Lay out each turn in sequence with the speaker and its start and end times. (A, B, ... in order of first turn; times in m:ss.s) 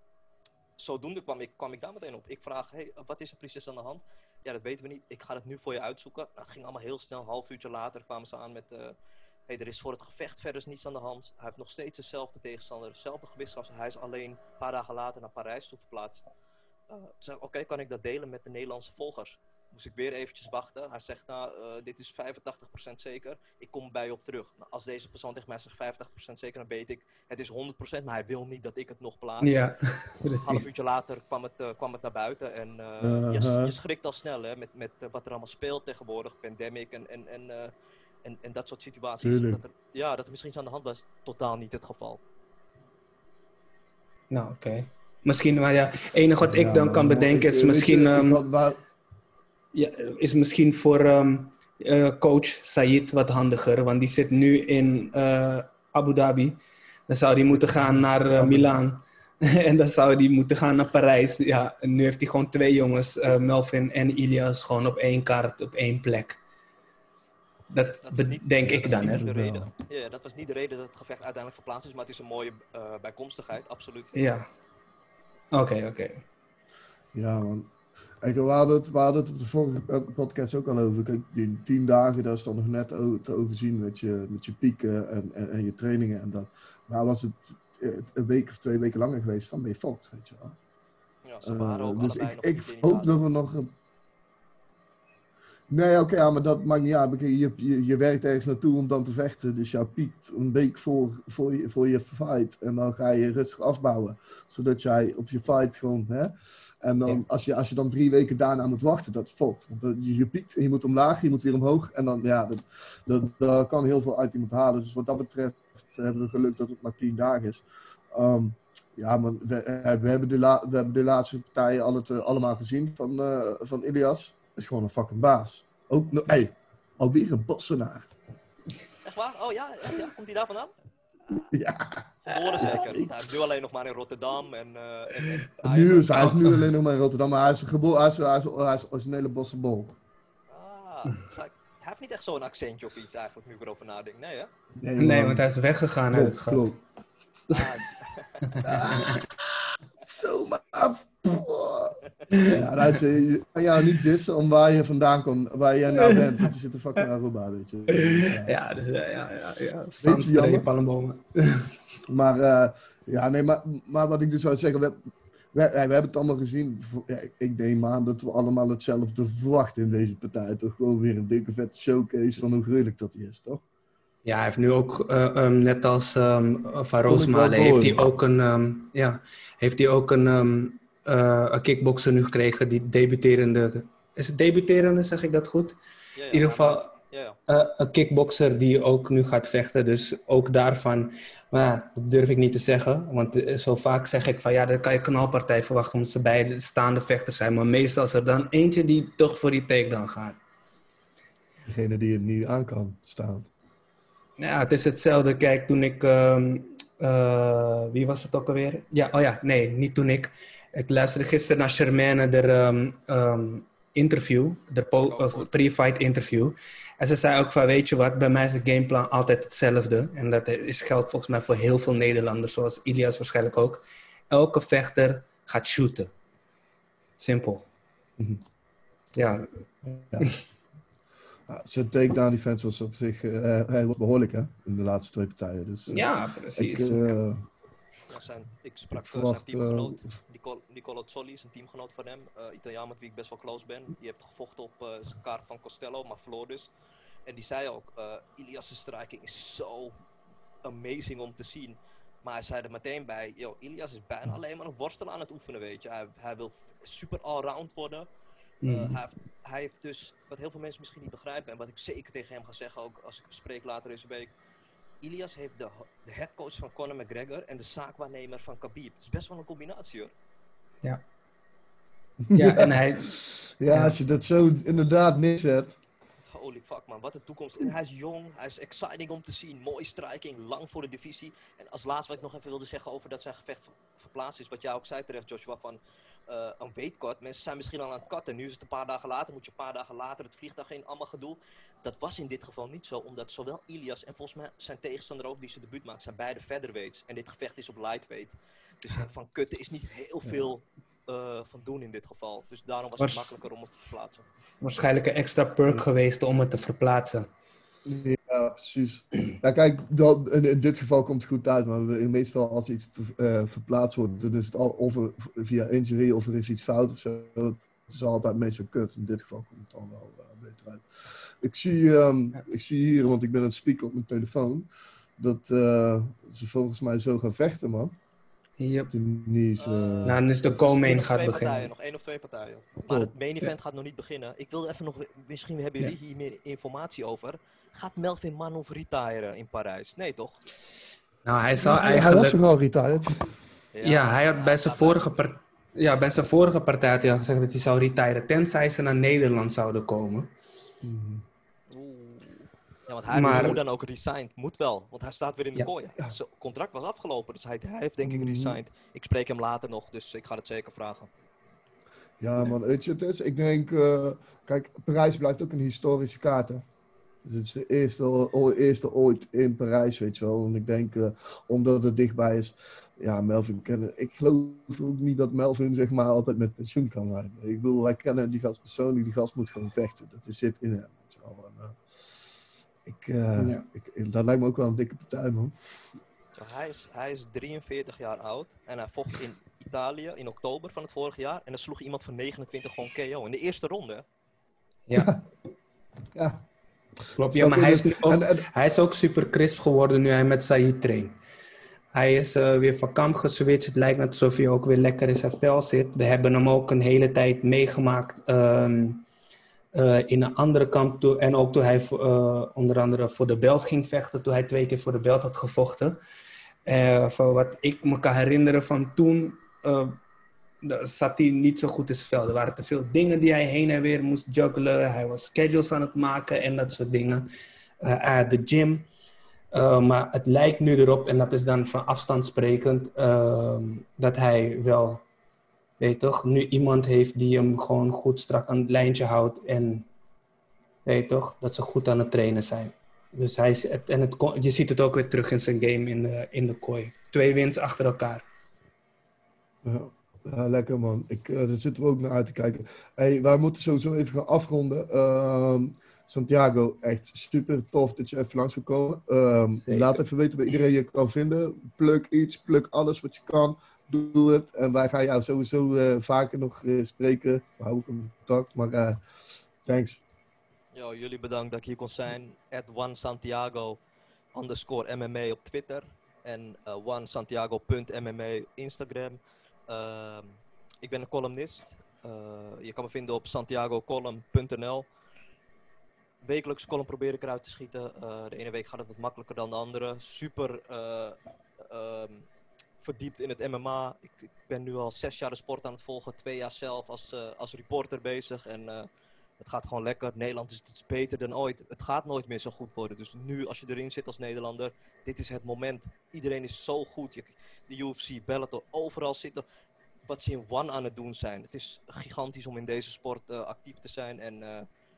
0:00.8-0:09.0 A
0:09.5-0:16.3 A
0:16.9-0:29.7 A
0:29.4-0:30.6 B
0:30.4-0:37.7 A
0:33.0-0:33.8 C
0:38.2-0:42.2 A
0:39.2-0:39.6 C
0:44.3-0:48.4 B
0:46.4-0:48.8 C
0:49.7-1:06.4 B
0:58.4-0:58.8 C
1:07.7-1:09.7 B
1:08.0-1:14.1 A
1:14.1-1:14.5 B
1:15.5-1:16.2 B
1:17.1-1:30.6 C
1:31.2-1:33.2 A
1:31.4-1:33.7 C
1:35.7-2:08.1 C
2:09.0-2:10.7 A
2:11.5-2:12.1 C
2:12.3-2:16.4 A
2:12.6-2:13.1 C
2:15.6-2:20.0 C
2:16.2-2:16.6 B
2:20.5-2:24.5 A
2:24.8-2:25.4 C
2:25.0-2:26.7 B
2:26.1-2:26.8 C
2:27.5-2:27.8 B
2:27.5-2:28.5 A
2:28.5-2:29.2 B
2:28.6-2:29.3 C
2:30.1-2:38.5 C
2:32.3-2:32.7 B
2:35.9-2:36.5 B
2:37.9-2:41.7 B
2:40.0-2:40.7 C
2:42.1-2:45.0 C
2:45.5-2:53.6 C
2:54.2-3:05.8 B
2:57.1-2:58.0 C
3:06.2-3:07.4 A
3:06.3-3:06.9 B
3:07.5-3:20.4 B
3:21.7-3:23.5 C
3:24.4-3:46.1 B
3:35.0-3:35.5 A
3:47.2-3:47.7 B
3:49.2-3:49.5 B
3:49.8-3:50.3 C
3:51.5-3:57.5 C
3:55.9-3:57.2 B
3:58.1-4:06.7 A
3:58.9-4:00.1 C
4:07.3-4:10.0 A
4:10.6-4:18.1 A
4:18.6-4:19.0 B
4:18.6-4:24.3 A
4:25.0-4:30.1 A
4:32.2-4:35.8 C
4:32.3-4:33.1 B
4:33.7-4:34.0 B
4:36.3-5:04.2 A
5:03.0-5:03.3 B
5:04.6-5:07.3 B
5:07.8-5:20.9 C
5:21.4-5:28.0 C
5:28.6-5:28.9 B
5:28.9-5:30.2 C
5:29.6-5:40.4 A
5:30.0-5:31.7 B
5:41.2-5:42.5 B
5:41.6-5:43.3 C
5:43.7-5:45.1 A
5:43.8-5:50.3 B
5:50.8-5:51.2 C
5:51.7-6:01.1 A
5:53.1-5:53.6 B
5:53.2-5:53.6 C
5:58.0-5:58.6 C
6:02.2-6:06.6 C
6:07.2-6:21.8 C
6:22.8-6:25.5 C
6:23.4-6:23.7 B
6:26.4-6:34.0 A
6:34.9-6:35.1 B
6:35.0-6:35.2 C
6:36.2-6:36.4 C
6:37.2-6:41.2 B
6:37.3-6:38.5 C
6:41.9-6:49.0 B
6:49.7-6:56.0 B
6:56.7-7:00.0 B
7:00.6-7:07.3 B
7:07.8-7:08.9 B
7:09.5-7:15.0 B
7:15.8-7:19.9 B
7:20.8-7:28.2 B
7:29.6-7:49.0 C
7:39.6-7:40.0 B
7:49.6-7:50.0 C
7:50.7-7:53.8 A
7:54.3-8:04.9 A
8:06.2-8:12.3 A
8:12.8-8:18.9 A
8:19.4-8:29.4 A
8:30.1-8:34.7 A